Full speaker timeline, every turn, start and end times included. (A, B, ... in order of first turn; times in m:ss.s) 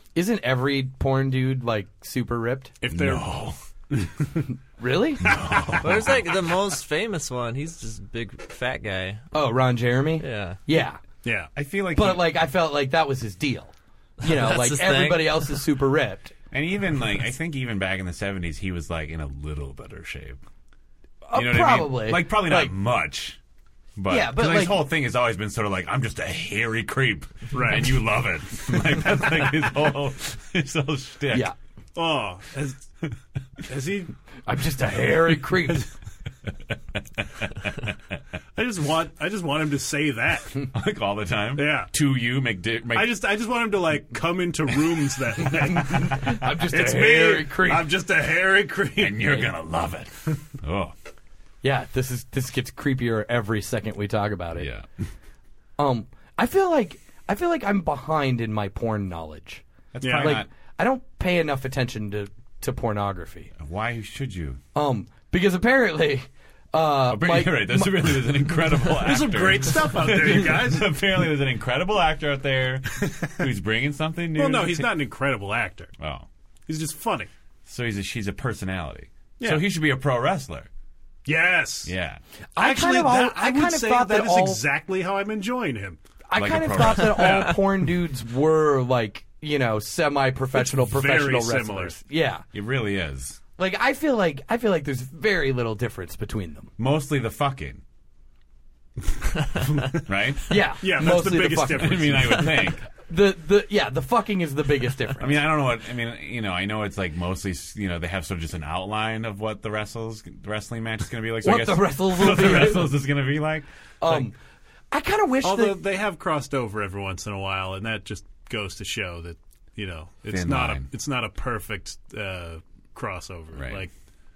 0:00.1-0:02.7 A
0:02.8-0:03.3 B
0:02.9-0:03.6 C
0:03.9-0:04.4 B
0:04.8-0:05.8 A
0:05.2-0:06.2 C
0:05.8-0:09.2 D
0:09.3-0:11.0 A
0:10.2-0:10.6 D
0:11.2-0:11.5 B
0:11.6-0:12.3 C
0:11.9-0:16.3 A
0:14.2-0:15.5 D
0:16.5-0:20.4 C
0:21.3-0:22.7 A
0:21.3-0:23.4 C
0:24.0-0:31.5 C
0:24.1-0:24.8 A
0:27.5-0:28.0 B
0:31.9-0:32.9 B
0:33.7-0:34.1 B
0:34.4-0:35.9 A
0:36.9-0:37.9 C
0:38.6-0:40.7 B
0:40.7-0:43.1 C
0:41.5-0:41.9 B
0:42.9-0:49.5 B
0:46.0-0:47.9 A
0:49.0-0:50.9 C
0:51.6-0:54.7 A
0:54.6-0:54.9 C
0:55.8-1:03.5 A
0:59.9-1:00.5 C
1:00.0-1:00.4 B
1:03.6-1:04.6 C
1:04.7-1:08.2 A
1:07.0-1:14.9 C
1:09.0-1:10.9 B
1:14.3-1:15.9 B
1:16.0-1:16.3 C
1:16.7-1:17.3 B
1:17.6-1:20.7 C
1:19.4-1:19.6 B
1:21.2-1:21.9 B
1:21.8-1:22.2 C
1:22.6-1:24.6 A
1:22.6-1:26.0 B
1:26.3-1:32.4 A
1:26.3-1:27.5 C
1:26.8-1:27.6 B
1:30.5-1:32.0 B
1:32.5-1:33.4 C
1:33.6-1:36.7 A
1:36.8-1:37.8 C
1:39.5-1:40.1 B
1:40.0-1:40.6 C
1:40.5-1:45.4 A
1:40.8-1:42.7 B
1:41.7-1:42.8 C
1:45.2-1:54.2 C
1:51.4-1:53.0 A
1:54.0-1:54.4 A
1:54.9-1:55.8 A
1:55.4-2:03.9 B
2:00.3-2:00.9 C
2:03.6-2:03.9 C